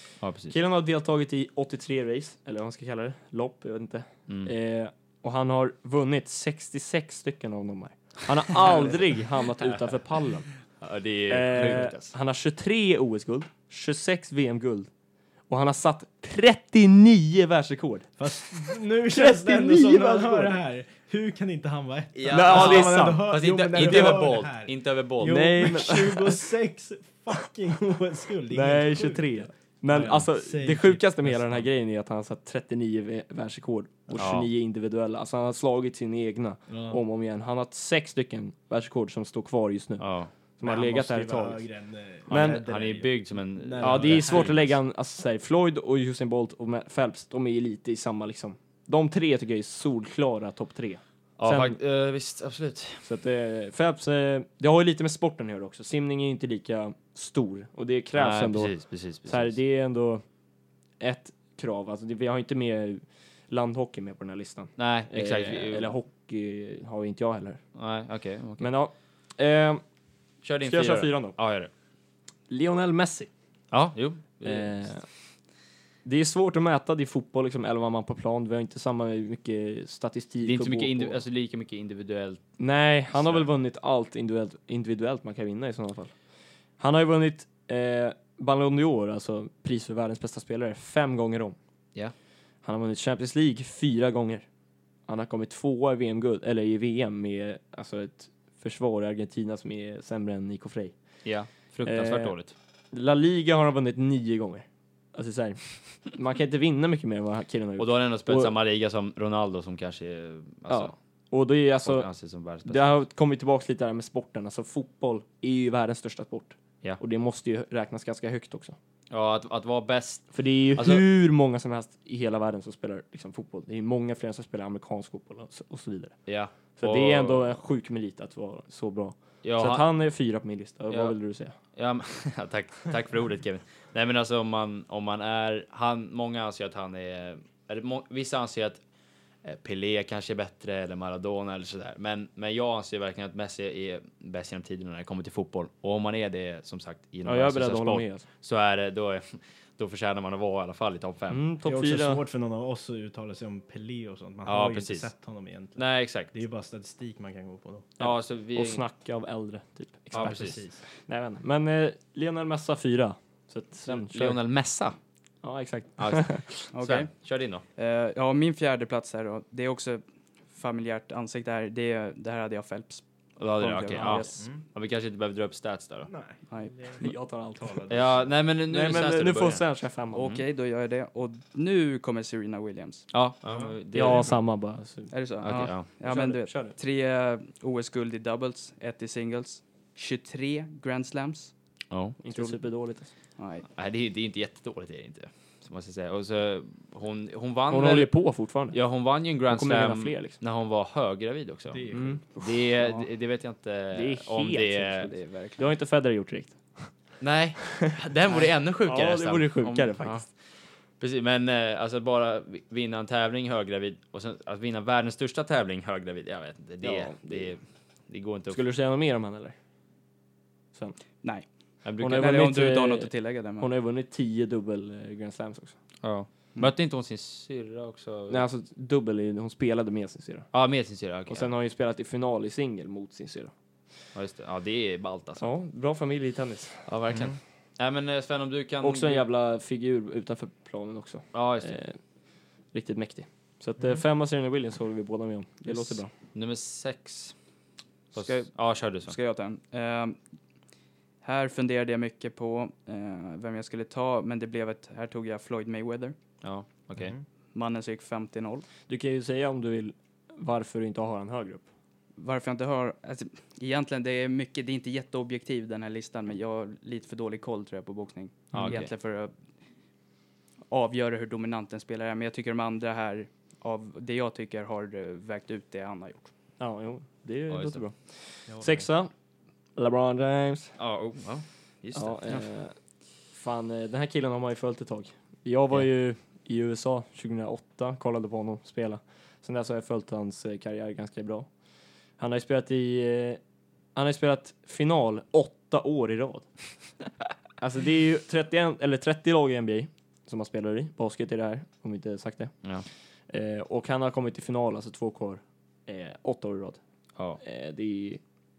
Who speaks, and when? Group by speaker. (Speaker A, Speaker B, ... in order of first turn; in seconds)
Speaker A: 0.2-0.6, 10.8-12.1, 22.1-25.7, 34.1-34.5, 40.0-40.3, 42.3-44.7, 51.4-53.1, 58.2-59.6, 64.8-65.9, 67.8-68.7, 70.4-71.7, 73.7-74.9, 80.4-82.4, 83.2-83.5, 101.2-102.5, 107.8-110.9, 111.8-112.9, 119.1-121.0, 126.3-127.6, 129.4-129.9, 130.9-131.2, 131.8-138.8, 139.4-151.4, 154.5-155.1, 155.8-156.3, 158.0-158.8, 160.1-160.6, 163.9-165.0, 166.0-167.6, 173.4-176.1, 177.9-180.4, 183.1-184.4, 185.4-185.9, 191.9-192.2, 193.7-198.1, 198.7-205.1, 207.2-210.3, 211.0-218.6, 221.8-222.4, 226.0-228.4, 230.5-231.5, 234.2-235.5, 236.9-239.2, 241.3-241.8, 246.3-247.3, 248.1-249.2, 256.4-257.1, 268.5-268.9, 277.5-277.8, 280.8-282.4
Speaker B: 0.5-10.5, 11.3-14.9, 15.5-20.6, 22.3-24.1, 25.2-26.5, 28.5-40.0, 40.6-41.7, 42.3-42.6, 43.8-51.8, 53.0-60.2, 61.0-67.6, 68.6-69.8, 70.6-71.4, 72.5-73.3, 74.4-75.0, 76.0-81.2, 82.6-86.1, 86.8-91.6, 92.6-94.5, 95.1-100.9, 101.8-102.3, 102.9-108.5, 110.7-112.1, 112.7-118.8, 120.3-126.2, 126.8-131.6, 147.2-148.2, 151.3-152.2, 158.0-164.4, 165.4-166.5, 174.0-174.3, 177.0-180.3, 183.9-185.1, 186.0-186.8, 192.2-193.1, 197.7-198.8, 199.5-200.4, 201.9-203.0, 203.9-206.9, 207.7-210.3, 216.8-217.5, 218.5-219.6, 222.0-225.8, 228.3-230.5, 231.3-233.5, 235.4-236.9, 238.8-242.0, 242.7-246.1, 258.9-261.7, 268.5-268.8, 276.6-279.1, 279.8-280.8, 281.9-282.7, 283.3-291.5, 292.2-293.4, 293.9-296.5, 297.6-302.5, 303.3-306.8, 307.4-308.2
Speaker C: 18.2-29.3, 29.9-31.6, 36.7-37.0, 40.6-44.6, 151.7-157.9, 160.2-160.8, 176.1-177.1, 177.6-178.2, 183.5-184.3, 201.7-202.2, 257.0-257.2, 278.5-278.8
Speaker D: 166.7-167.1, 167.8-173.0, 173.6-174.4, 176.5-177.1, 180.1-183.1, 185.1-191.5, 193.4-193.7, 205.3-205.6, 222.1-223.7, 245.7-245.9, 248.1-250.2, 251.2-256.1, 257.5-258.7, 262.2-269.3, 270.7-276.3